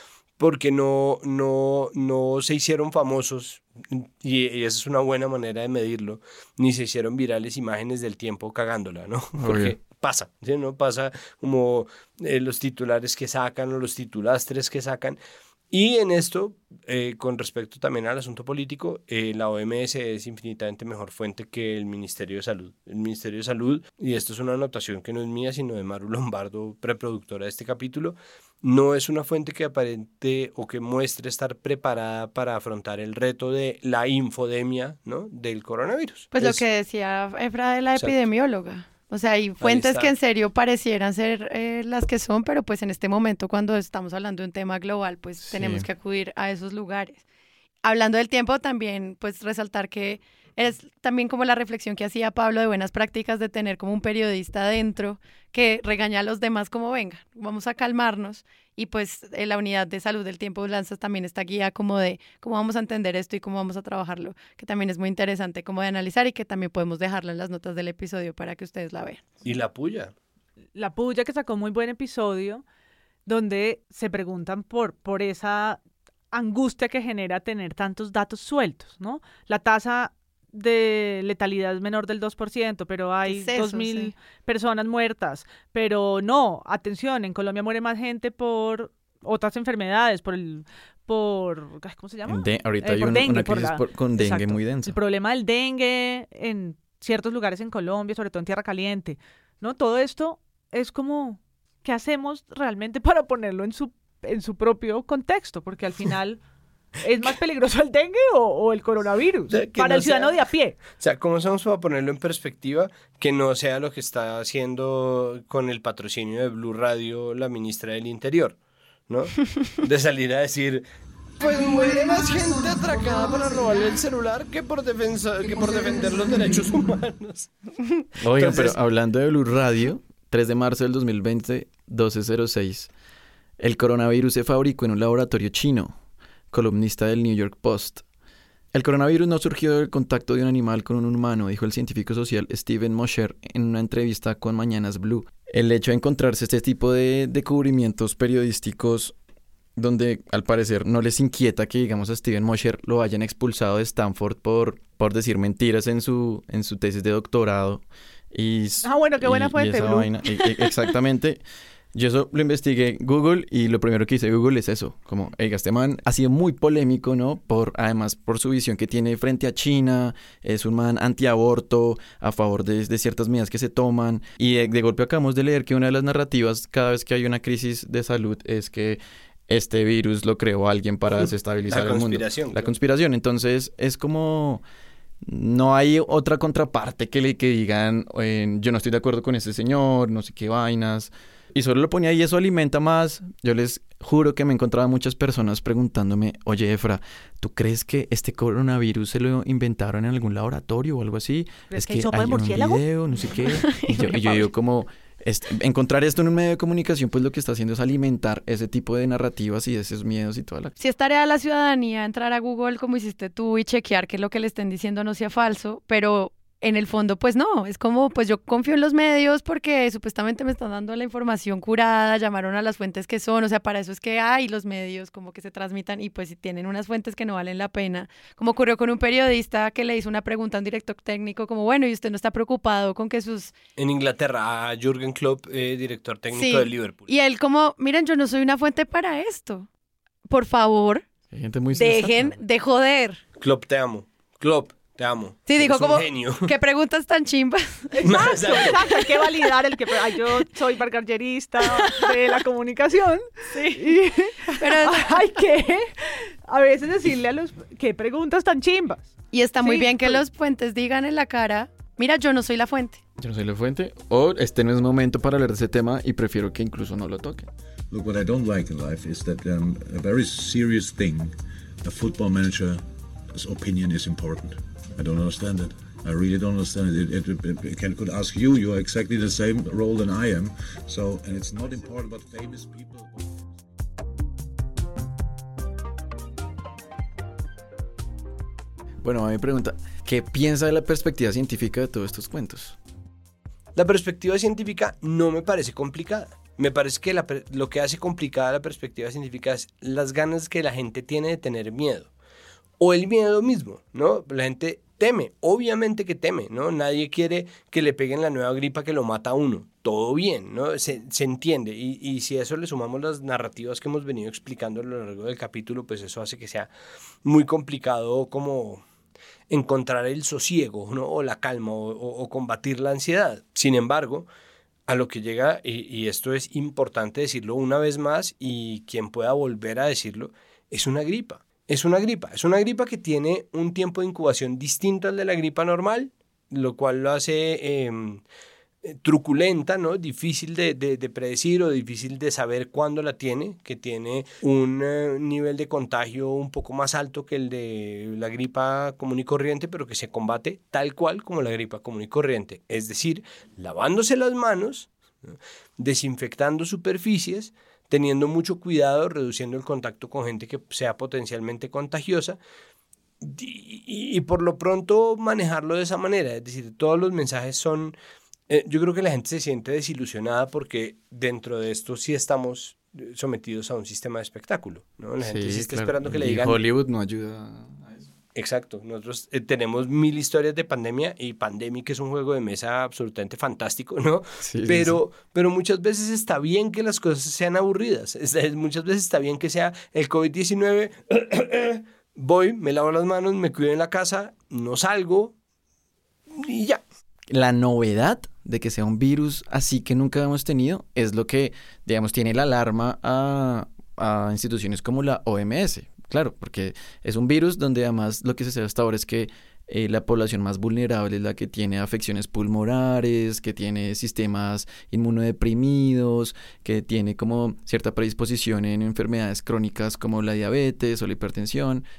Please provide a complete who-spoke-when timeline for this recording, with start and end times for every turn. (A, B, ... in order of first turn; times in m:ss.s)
0:00.4-0:15.2 A
0:09.4-0:09.8 B
0:15.7-0:36.6 A
0:36.3-0:47.2 C
0:39.6-0:40.1 A
0:45.4-0:45.8 B
0:47.8-1:09.2 C
1:09.4-1:10.1 A
1:10.7-1:12.6 D
1:13.2-1:15.8 D
1:16.3-1:46.4 D
1:23.3-1:24.1 C
1:32.2-1:35.0 B
1:47.0-1:50.8 D
1:49.5-1:50.3 A
1:51.0-1:58.6 A
1:59.1-2:00.8 A
2:01.4-2:07.5 A
2:08.2-2:12.9 B
2:08.4-2:08.7 A
2:13.6-2:16.0 B
2:16.5-2:18.0 B
2:18.7-2:29.1 B
2:29.8-2:41.4 B
2:38.8-2:40.1 D
2:41.9-3:04.6 B
3:01.2-3:02.7 A
3:05.2-3:30.7 B
3:21.7-3:23.5 D
3:23.7-3:24.2 C
3:30.8-3:53.5 C
3:53.8-3:57.1 A
3:56.3-3:59.7 C
4:00.3-4:01.0 C
4:01.3-4:02.4 B
4:01.7-4:03.2 C
4:03.4-4:06.5 A
4:05.5-4:07.9 C
4:08.0-4:19.1 D
4:08.0-4:08.8 A
4:11.7-4:12.1 C
4:13.5-4:13.8 C
4:14.6-4:15.1 C
4:19.3-4:23.0 C
4:19.6-4:20.2 D
4:23.2-4:27.5 B
4:27.9-4:32.8 E
4:33.4-4:43.4 E
4:49.0-4:52.8 B
4:53.8-5:02.1 A
5:02.8-5:16.7 A
5:17.2-5:18.8 A
5:19.5-5:24.3 A
5:24.9-5:38.2 A
5:38.8-6:02.4 A
6:03.2-6:07.9 A
6:08.5-6:16.6 A
6:15.2-6:18.1 B
6:18.3-6:35.3 A
6:24.4-6:25.0 B
6:36.3-6:36.8 A
6:37.3-7:01.8 B